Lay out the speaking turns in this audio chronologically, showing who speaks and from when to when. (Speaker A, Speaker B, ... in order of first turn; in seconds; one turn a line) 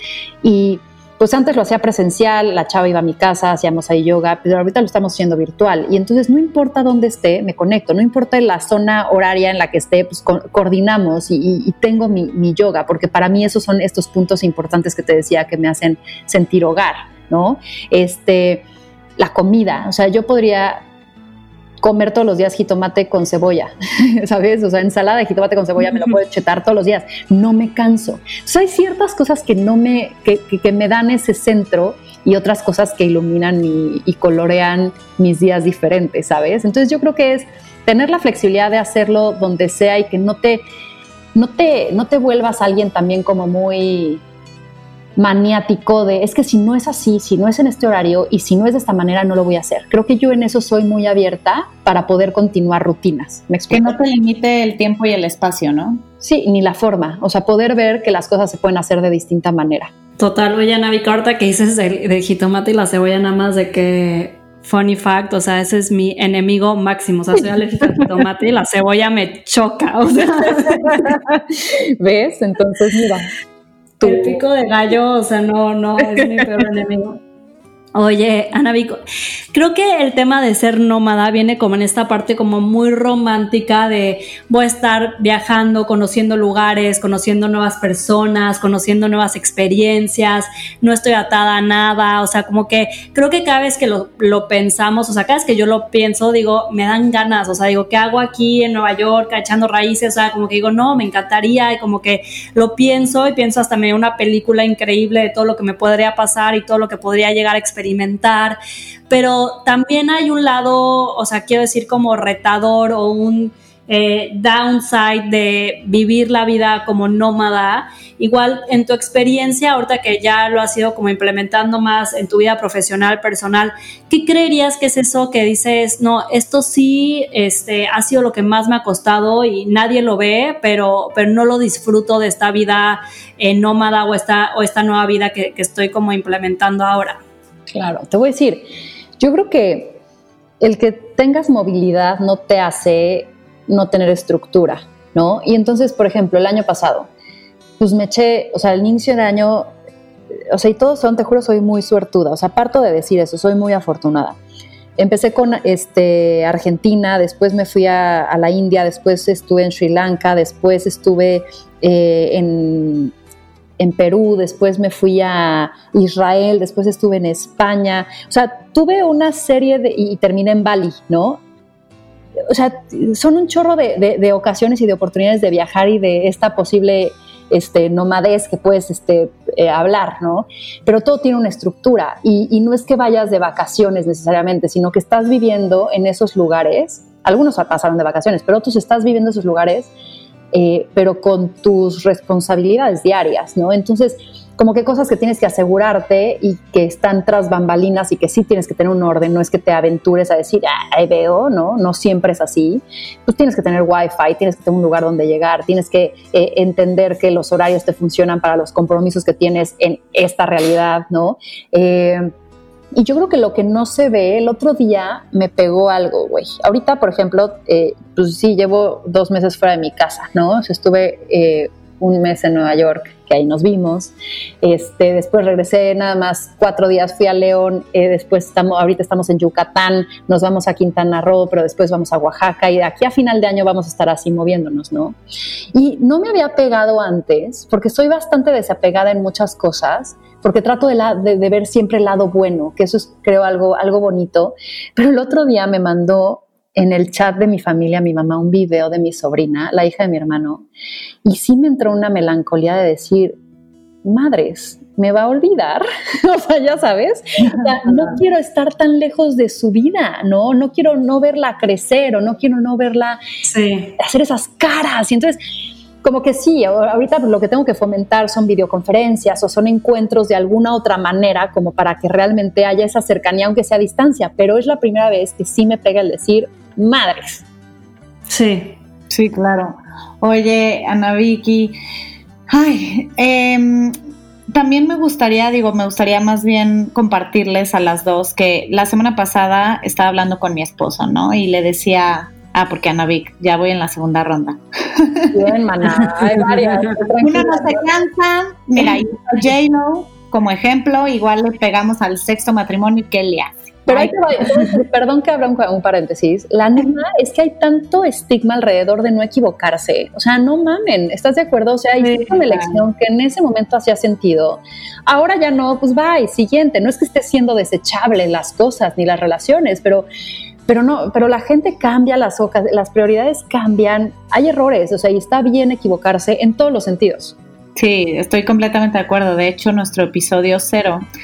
Speaker A: 0.4-18.6
Speaker A: 19.2-20.8
Speaker A: 21.8-40.6
Speaker A: 41.3-44.2
Speaker A: 45.2-53.9
Speaker B: 53.7-56.0
Speaker A: 56.2-59.9
Speaker C: 60.2-71.2
Speaker A: 67.8-68.1
Speaker A: 70.6-73.3
Speaker A: 74.0-74.4
Speaker C: 74.0-77.2
Speaker A: 76.2-76.7
Speaker C: 77.9-79.0
Speaker C: 79.5-108.6
Speaker C: 109.1-137.2
Speaker A: 137.7-138.7
Speaker A: 139.2-140.0
Speaker A: 140.6-147.1
Speaker A: 147.8-149.7
Speaker A: 150.5-154.4
Speaker A: 155.0-163.1
Speaker A: 163.8-171.4
Speaker A: 172.5-189.9
Speaker A: 190.5-212.3
Speaker A: 212.9-235.2
Speaker A: 235.7-250.7
Speaker A: 251.2-253.4
Speaker A: 254.0-263.2
Speaker C: 257.5-258.1
Speaker C: 263.4-263.9
Speaker A: 264.0-265.4
Speaker A: 266.0-277.4
Speaker C: 278.3-278.7
Speaker B: 279.1-281.8
Speaker B: 282.5-283.9
Speaker B: 284.5-295.3
Speaker A: 295.3-297.9
Speaker C: 296.1-297.1
Speaker B: 297.2-304.2
Speaker A: 303.9-320.1
Speaker C: 312.0-312.4
Speaker A: 320.7-327.4
Speaker B: 327.8-331.0